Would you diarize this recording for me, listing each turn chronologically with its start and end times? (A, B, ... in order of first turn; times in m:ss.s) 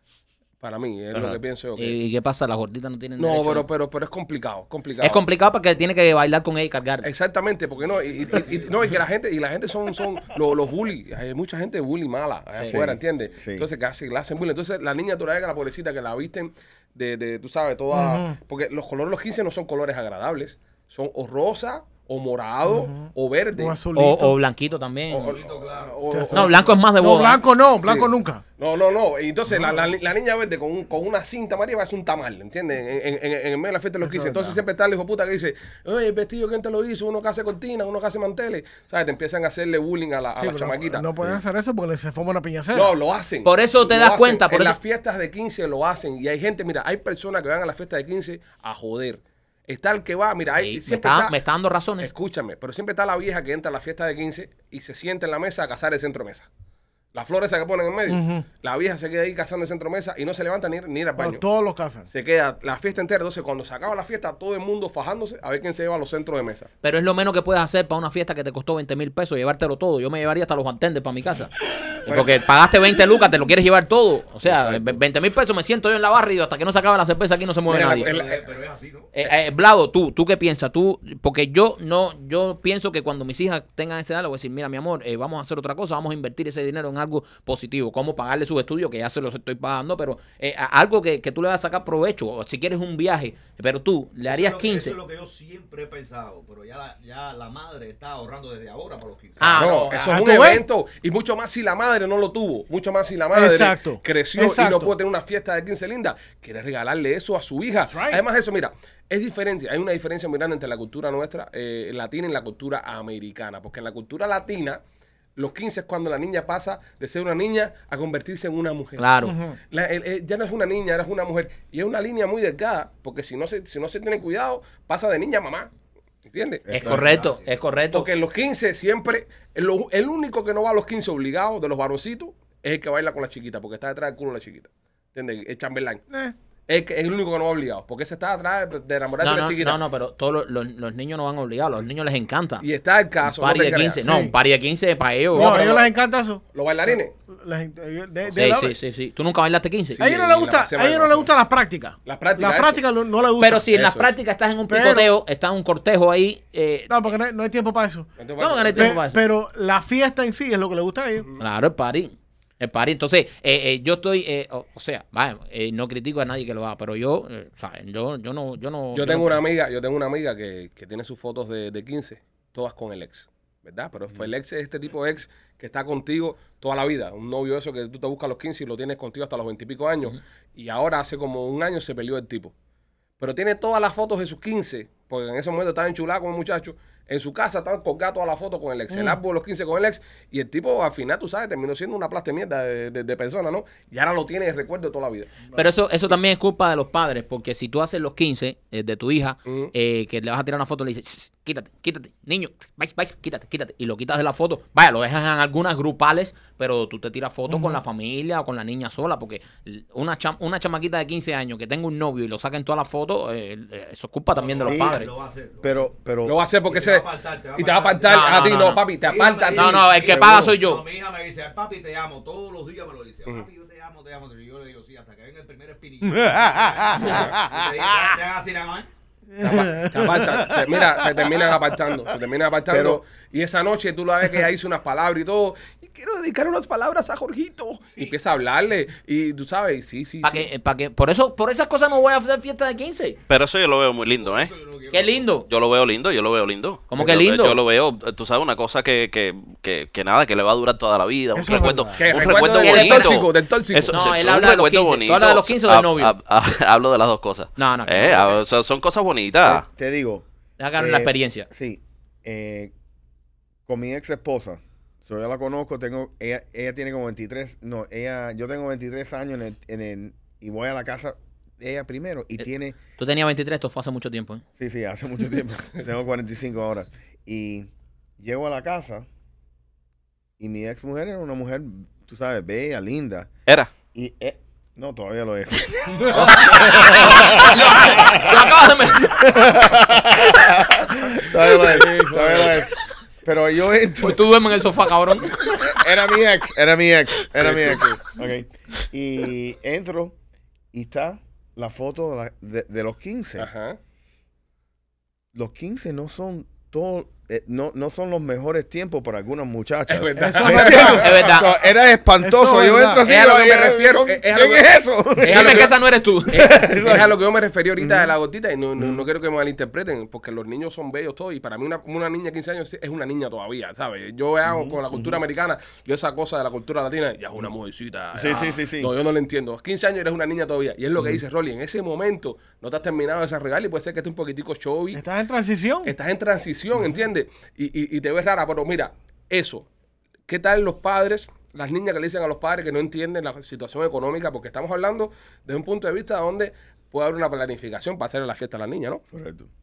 0:00.6-0:02.0 A
0:01.2-0:03.7 B
0:03.2-0:05.2 A
0:05.0-0:07.1 B
0:07.0-0:23.8 A
0:12.7-0:13.7 C
0:17.9-0:18.4 D
0:22.7-0:24.4 D
0:24.0-0:25.4 B
0:25.1-0:26.7 A
0:25.2-0:26.7 E
0:26.1-0:28.4 D
0:26.3-0:27.4 B
0:27.8-0:41.4 A
0:34.0-0:34.6 D
0:40.4-0:42.9 D
0:42.7-0:51.3 A
0:43.4-0:44.8 B
0:50.6-0:52.1 B
0:52.0-0:56.5 A
0:57.1-1:01.4 A
0:58.1-0:58.4 D
1:01.2-1:02.1 D
1:02.1-1:06.7 A
1:06.8-1:18.1 B
1:12.1-1:12.4 A
1:14.4-1:15.0 A
1:17.7-1:18.5 A
1:18.0-1:19.2 E
1:19.1-1:34.9 B
1:34.2-1:39.7 E
1:39.4-1:40.2 B
1:39.6-1:54.8 A
1:40.1-1:40.6 D
1:43.3-1:44.9 D
1:47.9-1:48.2 D
1:55.4-1:59.1 A
1:59.0-1:59.4 B
1:59.2-1:59.6 D
1:59.7-2:05.7 A
2:06.3-2:07.1 A
2:06.7-2:07.2 C
2:06.7-2:08.1 B
2:06.9-2:07.5 E
2:07.9-2:16.0 A
2:16.7-2:19.8 A
2:19.2-2:22.7 B
2:22.6-2:24.0 A
2:23.2-2:25.6 B
2:24.0-2:24.3 D
2:25.3-2:28.8 D
2:25.3-2:25.9 A
2:26.5-2:27.1 A
2:28.3-2:30.0 B
2:30.0-2:31.3 A
2:30.0-2:33.7 D
2:32.1-2:32.8 A
2:33.4-2:36.9 B
2:33.7-2:34.1 A
2:34.7-2:35.1 D
2:36.9-2:38.1 D
2:38.2-2:39.0 A
2:38.4-2:39.2 B
2:38.8-2:41.3 D
2:41.4-2:49.4 B
2:48.9-3:02.5 A
3:03.2-3:15.3 A
3:08.9-3:09.2 D
3:15.5-3:35.1 B
3:19.5-3:19.7 A
3:27.5-3:27.8 D
3:34.3-3:35.9 E
3:34.6-3:35.0 C
3:35.6-3:36.4 C
3:36.2-3:40.3 A
3:36.6-3:48.9 E
3:38.0-3:38.8 B
3:39.5-3:40.8 B
3:46.2-3:47.3 D
3:47.0-3:47.4 A
3:49.4-3:51.1 D
3:49.4-4:00.5 A
3:52.7-3:53.0 C
4:00.2-4:03.2 B
4:03.3-4:04.5 F
4:04.1-4:05.3 E
4:04.9-4:05.5 B
4:05.4-4:19.6 F
4:06.9-4:07.6 B
4:11.4-4:12.1 D
4:12.0-4:14.0 A
4:12.5-4:13.3 B
4:13.8-4:16.1 B
4:17.6-4:18.4 B
4:19.4-4:20.2 C
4:20.6-4:21.5 B
4:20.8-4:22.7 C
4:23.7-4:32.8 C
4:32.4-4:34.4 B
4:34.6-4:39.1 C
4:40.4-4:43.3 C
4:43.9-4:48.5 C
4:46.0-4:49.3 B
4:49.0-4:52.7 C
4:51.5-4:52.6 A
4:53.2-4:54.2 C
4:54.0-4:55.5 B
4:55.4-5:00.2 C
4:57.4-4:58.0 A
5:00.7-5:03.5 C
5:03.4-5:03.8 A
5:05.3-5:15.7 C
5:09.9-5:11.4 A
5:10.2-5:11.0 D
5:11.0-5:11.5 B
5:12.2-5:13.1 D
5:13.0-5:35.0 A
5:15.2-5:16.6 B
5:16.3-5:17.2 C
5:17.8-5:18.1 C
5:18.8-5:19.0 C
5:24.5-5:25.2 C
5:28.1-5:28.9 C
5:34.9-5:35.9 D
5:35.8-5:39.7 A
5:40.3-5:49.0 A
5:49.1-5:49.5 C